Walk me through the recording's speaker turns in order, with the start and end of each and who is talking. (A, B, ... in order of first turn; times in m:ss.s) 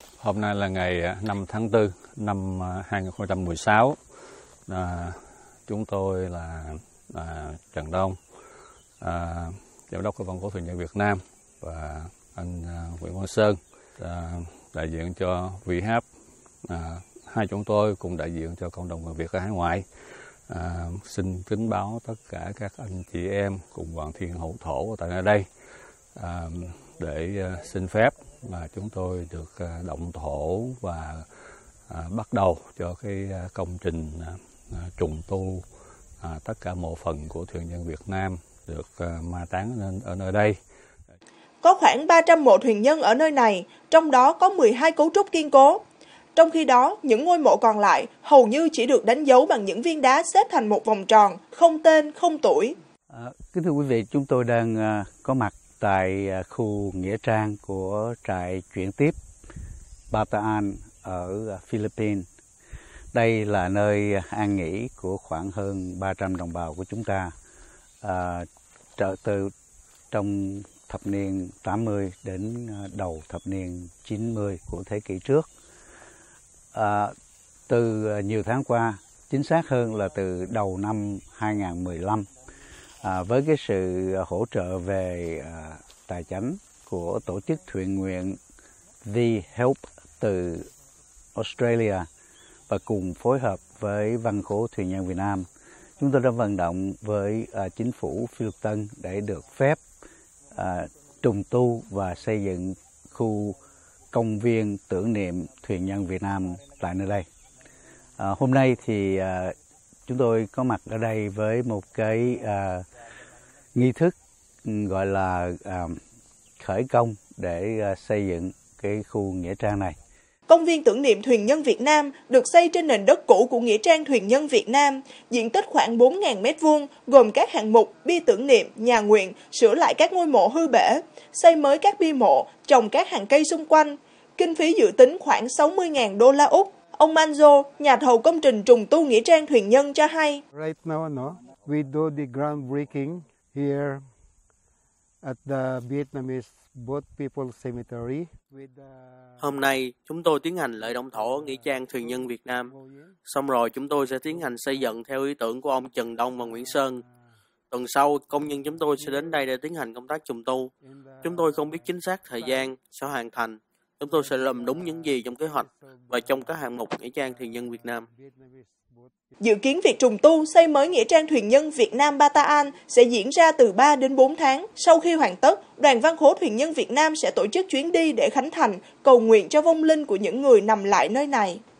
0:00.2-0:04.0 A
0:04.7-0:08.2 A
0:09.0-0:16.0 A
0:16.6-0:19.8 A
0:20.5-0:25.5 A
0:26.2-0:31.2 A
0:31.9-0:35.6 A
0:36.2-0:40.6 A
0:41.6-0:45.8 B
0:46.4-0:52.7 B
0:53.1-0:59.2 C
1:00.1-1:02.2 C
1:03.1-1:07.3 C
1:08.0-1:09.5 C
1:10.1-1:15.5 C
1:16.7-1:17.1 C
1:17.7-1:22.3 C
1:23.0-1:28.4 C
1:29.0-1:30.7 C
1:31.3-1:32.1 C
1:32.7-1:35.5 C
1:36.0-1:39.8 C
1:40.5-1:43.6 C
1:44.1-1:47.3 C
1:48.2-1:49.5 C
1:50.1-1:52.8 C
1:53.7-1:56.0 C
1:56.6-2:00.0 C
2:00.5-2:20.4 B
2:20.5-2:24.1 D
2:25.2-2:29.5 D
2:29.4-2:32.7 E
2:31.1-2:33.2 D
2:33.2-2:37.0 E
2:36.6-2:37.1 D
2:37.7-2:40.7 E
2:38.4-2:39.5 D
2:40.8-2:42.7 D
2:41.2-2:48.0 E
2:44.1-2:49.1 D
2:49.4-3:01.6 B